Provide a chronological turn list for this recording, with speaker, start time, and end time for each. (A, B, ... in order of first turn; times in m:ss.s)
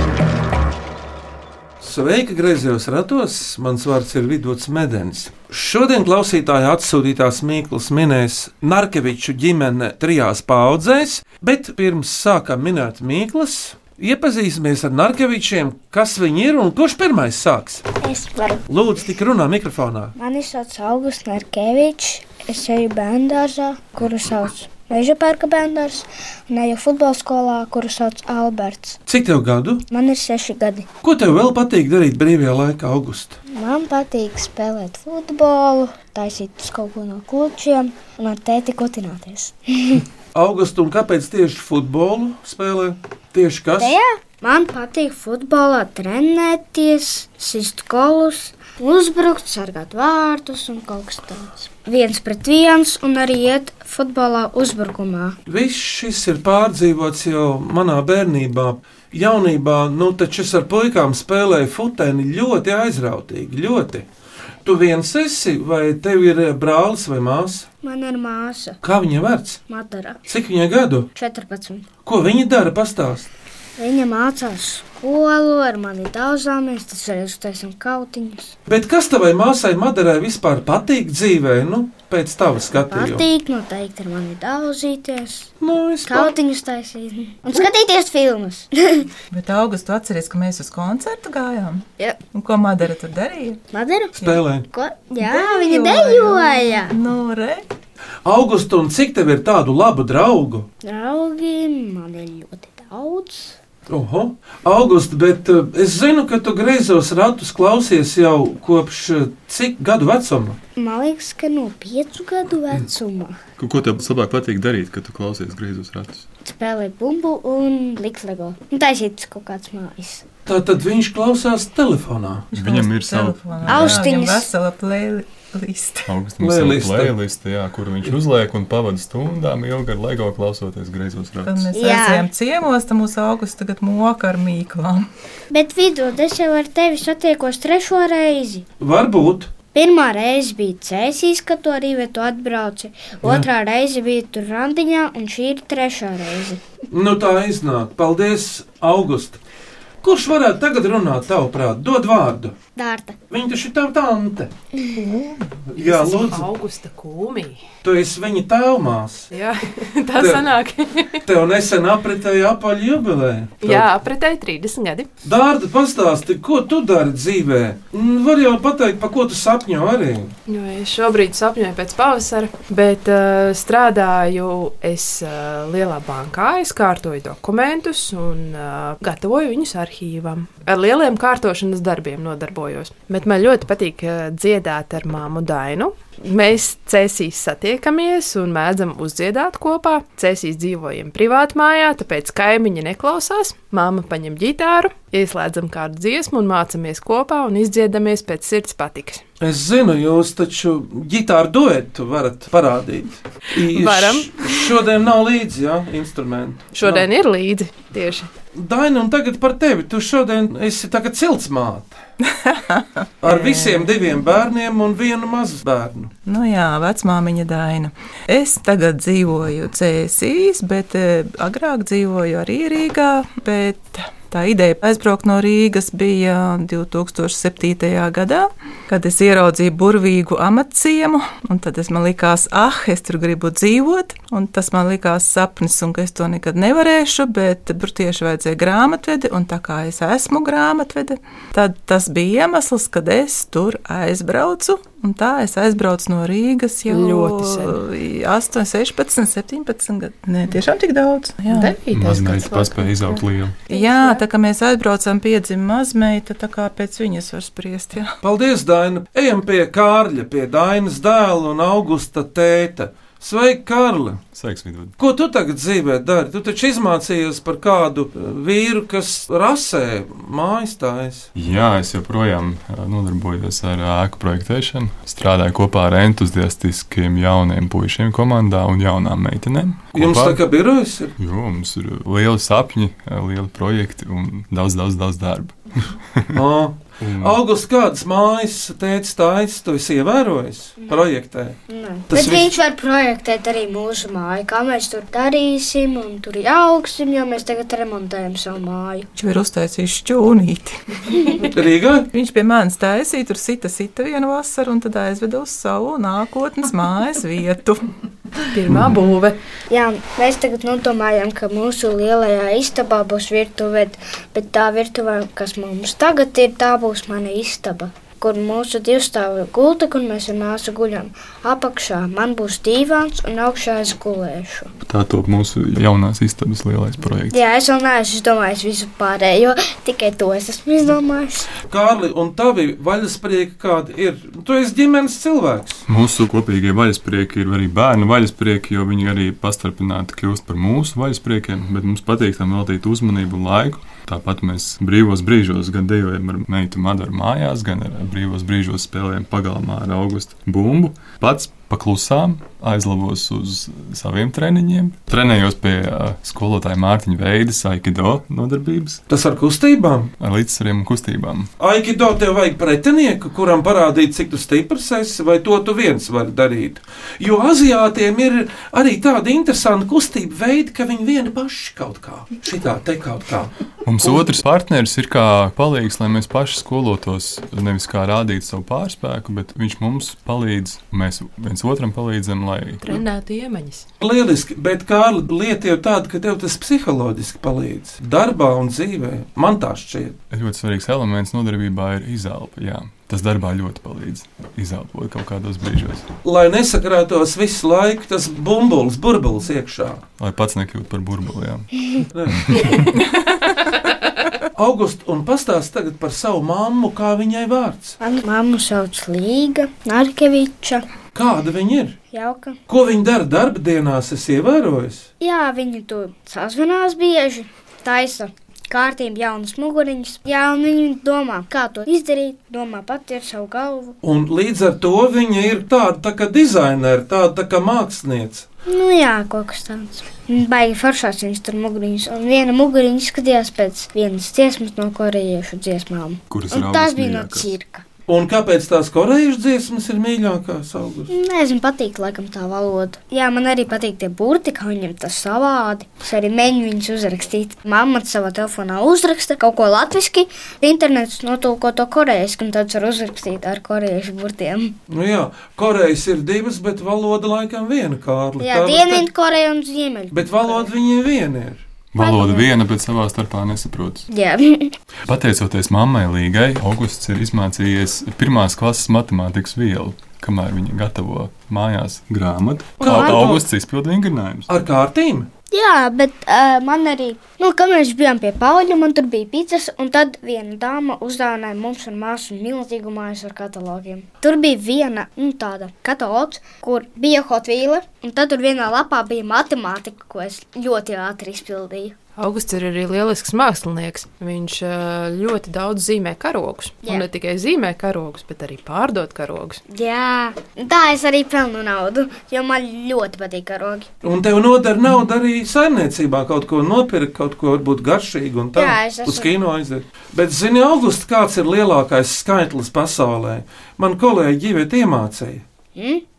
0:01.8-0:17.8 A
0:18.0-0:18.6 B
0:18.7-0:20.1 A
0:20.2-0:29.0 B
0:29.1-0:29.8 A
0:29.9-0:30.8 B
0:31.0-0:33.4 A
0:33.5-0:40.0 B
0:40.3-0:44.0 A
0:43.8-0:55.4 B
0:55.5-1:04.1 A
1:04.6-1:07.7 A
1:07.8-1:08.8 B
1:08.8-1:09.6 A
1:09.7-1:10.2 B
1:10.3-1:11.1 A
1:11.1-1:11.9 B
1:12.0-1:13.3 A
1:13.8-1:18.6 B
1:18.7-1:23.2 A
1:22.8-1:25.5 B
1:25.6-1:26.3 A
1:26.0-1:29.1 B
1:29.3-1:33.6 C
1:33.7-1:36.9 B
1:34.2-1:34.6 A
1:35.2-1:37.6 C
1:38.2-1:40.7 A
1:40.8-1:43.6 B
1:43.9-1:50.6 A
1:50.8-1:53.4 B
1:53.6-1:56.2 D
1:56.4-2:00.2 B
2:00.4-2:02.5 A
2:02.5-2:06.1 C
2:02.5-2:04.0 D
2:03.7-2:04.5 B
2:06.1-2:11.7 D
2:06.4-2:07.2 A
2:11.4-2:15.1 C
2:11.7-2:12.3 B
2:15.5-2:18.6 B
2:18.8-2:19.5 A
2:19.7-2:26.6 B
2:23.2-2:23.5 A
2:26.9-2:29.4 A
2:30.0-2:32.5 A
2:32.8-2:33.2 B
2:33.3-2:34.5 A
2:34.9-2:37.6 E
2:35.7-2:36.5 A
2:37.8-2:39.3 A
2:39.3-2:41.2 E
2:40.2-2:40.5 A
2:41.2-2:43.9 A
2:43.6-2:45.1 E
2:45.2-2:50.3 A
2:50.5-3:19.2 E
3:19.4-3:27.1 A
3:23.6-3:24.7 E
3:26.7-3:28.3 E
3:28.5-3:32.0 A
3:32.2-3:33.9 C
3:33.2-3:36.1 A
3:36.2-4:11.8 C
4:06.8-4:07.8 E
4:11.5-4:14.2 E
4:11.9-4:13.6 D
4:13.7-4:18.2 C
4:18.2-4:24.2 A
4:24.3-4:24.9 D
4:25.0-4:31.3 A
4:31.3-4:40.4 D
4:39.9-4:41.1 A
4:41.2-4:46.4 D
4:46.3-4:51.6 A
4:47.0-4:47.4 D
4:51.7-4:59.1 B
4:52.1-4:52.5 A
4:59.2-5:01.4 C
5:01.5-5:02.1 A
5:02.1-5:07.9 C
5:08.5-5:09.4 E
5:09.7-5:24.7 B
5:24.8-5:27.4 D
5:27.3-5:31.5 B
5:31.7-5:35.8 A
5:35.9-5:59.0 D
5:59.1-6:00.1 A
6:00.2-6:01.5 D
6:01.6-6:14.3 A
6:13.8-6:22.8 D
6:22.8-6:23.8 E
6:24.0-6:30.2 A
6:30.3-6:36.1 D
6:36.2-6:40.0 A
6:40.2-6:41.8 D
6:42.1-6:42.8 A
6:42.4-6:42.9 D
6:44.5-6:48.0 A
6:48.0-6:50.8 B
6:51.1-6:52.0 A
6:52.1-6:52.6 B
6:52.7-6:55.1 A
6:55.2-7:04.0 B
7:04.0-7:08.4 A
7:08.6-7:17.8 B
7:16.3-7:17.5 D
7:18.1-7:21.1 A
7:21.1-7:34.7 B
7:34.9-7:39.1 A
7:38.4-7:40.7 B
7:40.1-7:41.6 A
7:41.9-7:44.0 D
7:42.0-7:42.5 B
7:44.1-7:44.7 B
7:45.0-7:54.5 D
7:52.8-7:53.4 A
7:52.8-7:53.3 B
7:54.5-7:55.3 A
7:55.5-8:12.0 B
8:12.2-8:19.6 E
8:19.7-8:23.9 B
8:24.0-8:35.4 A
8:28.5-8:29.3 B
8:35.8-8:36.0 B